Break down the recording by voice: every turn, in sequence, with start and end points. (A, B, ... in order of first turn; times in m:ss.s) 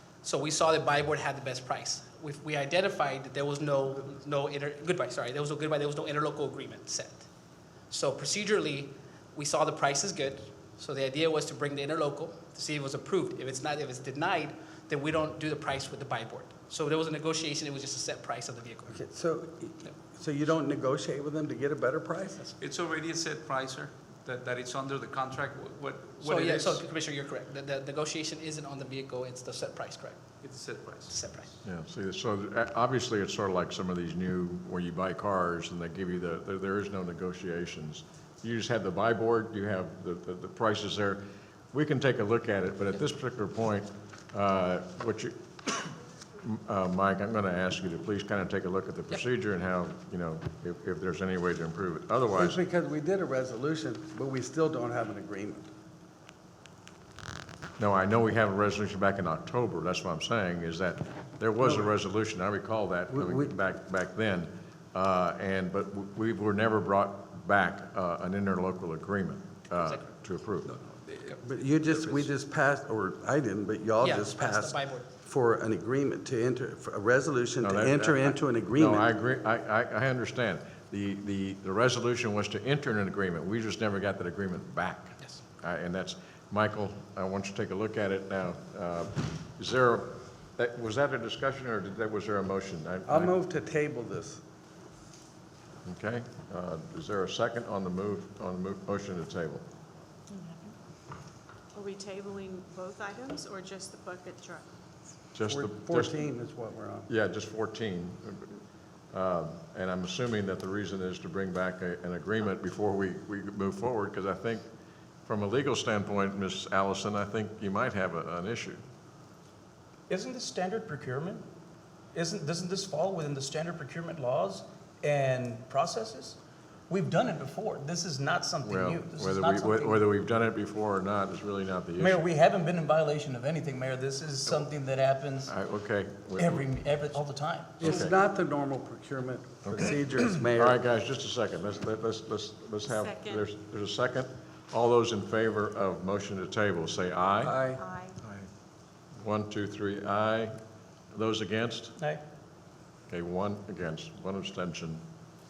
0:00.2-0:07.2 A
0:07.9-0:19.0 A
0:18.9-0:22.4 B
0:22.6-0:26.8 C
0:26.2-0:30.2 A
0:30.4-0:31.2 C
0:31.1-0:31.5 A
0:31.6-0:52.6 D
0:52.3-0:55.7 B
0:57.8-1:10.7 D
1:01.6-1:01.9 B
1:03.1-1:03.5 B
1:10.6-1:11.4 C
1:11.4-1:19.1 B
1:11.9-1:12.3 C
1:14.0-1:15.0 A
1:17.6-1:33.3 D
1:33.0-1:34.4 B
1:35.8-1:39.6 D
1:41.7-1:44.6 E
1:45.3-1:46.1 D
1:45.5-1:47.1 B
1:47.1-1:54.6 D
1:55.2-1:58.8 D
2:00.1-2:01.4 F
2:02.1-2:06.4 F
2:06.9-2:10.0 F
2:08.6-2:12.2 D
2:12.0-2:15.5 F
2:15.5-2:17.2 D
2:16.4-2:17.8 F
2:17.8-2:18.1 D
2:17.8-2:20.8 B
2:19.6-2:20.0 D
2:20.5-2:27.6 D
2:22.9-2:23.4 E
2:27.4-2:27.8 B
2:27.8-2:28.1 E
2:28.2-2:28.5 D
2:29.2-2:30.5 D
2:31.1-2:31.9 D
2:33.1-2:35.0 D